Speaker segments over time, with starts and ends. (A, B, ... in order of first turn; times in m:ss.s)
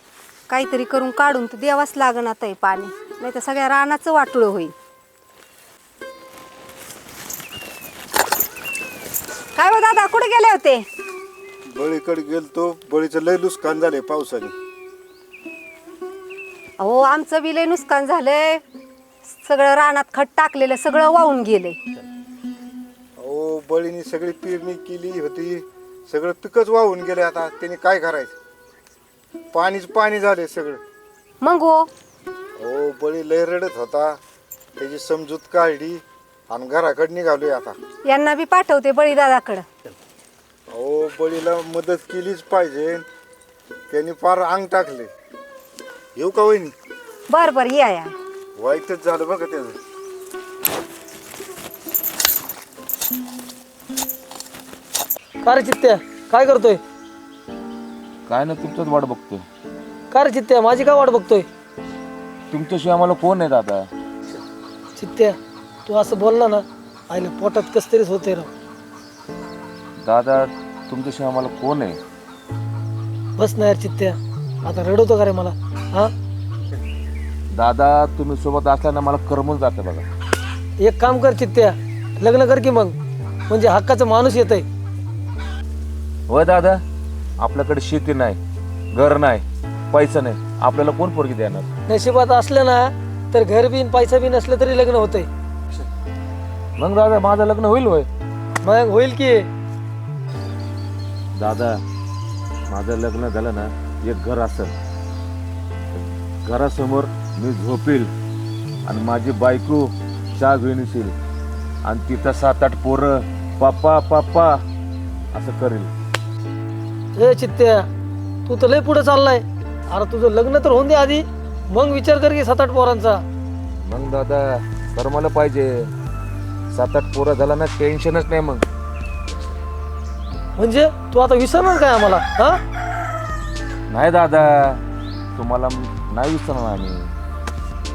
0:00.5-0:04.7 A
0:09.6-0:10.9 A
0:11.7-0:14.5 B
0:16.8-0:18.6 A
0:19.3-0:21.8 A
0:23.2-0:28.3 B
0:29.5-0:30.8 B
0:31.4-0:31.9 A
0:32.6-0:34.2 B
0:34.8-0:37.8 B
0:38.1-0:39.7 A
0:40.7-0:43.0 B
0:43.9-0:45.1 B
0:46.2-0:46.7 B
0:47.3-0:48.1 A
0:48.6-0:49.8 B
0:55.4-0:56.8 C
0:58.3-0:59.5 D
1:00.1-1:01.5 C
1:02.5-1:03.9 D
1:05.0-1:08.5 C
1:10.0-1:12.0 D
1:13.4-1:16.1 C
1:17.5-1:20.1 D
1:20.8-1:23.0 C
1:23.5-1:24.6 C
1:26.3-1:26.8 D
1:27.4-1:28.4 D
1:28.9-1:31.7 D
1:31.9-1:35.3 C
1:36.8-1:38.1 D
1:38.6-1:39.4 C
1:41.4-1:41.8 D
1:42.7-1:44.7 D
1:46.4-1:48.1 D
1:48.8-1:51.2 D
1:51.8-1:54.6 D
1:55.3-1:55.9 D
1:57.2-1:57.9 C
1:58.5-2:03.2 C
2:03.8-2:05.9 D
2:06.7-2:08.6 D
2:10.6-2:12.6 C
2:13.9-2:14.8 D
2:15.4-2:17.1 D